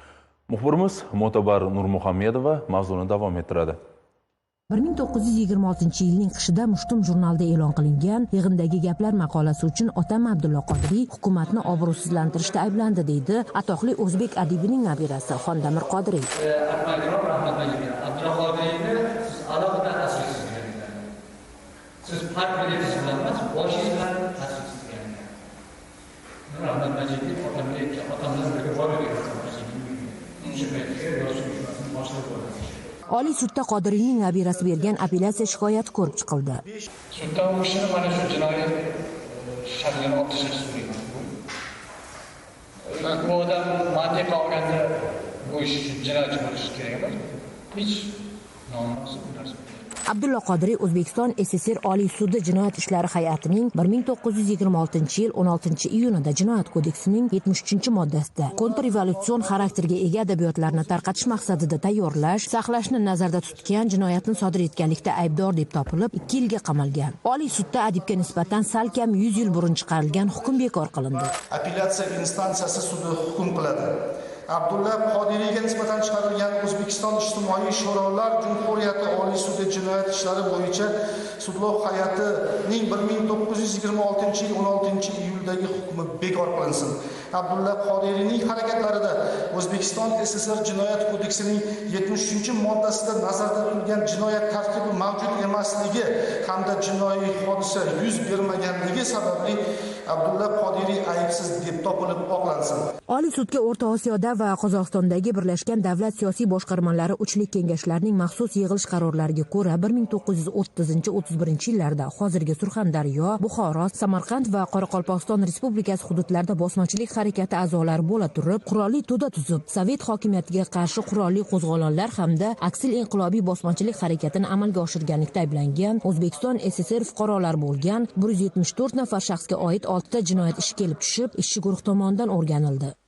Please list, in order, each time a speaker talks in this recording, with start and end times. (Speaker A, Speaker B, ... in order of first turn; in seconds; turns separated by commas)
Speaker A: 0.5-3.8, Speaker B: 4.7-16.3, Speaker C: 16.4-21.0, Speaker C: 22.0-25.3, Speaker C: 26.5-32.7, Speaker B: 33.1-36.6, Speaker C: 37.1-41.3, Speaker C: 42.9-47.2, Speaker C: 47.7-48.1, Speaker C: 48.7-49.8, Speaker B: 50.1-71.3, Speaker D: 71.5-102.9, Speaker B: 103.1-132.9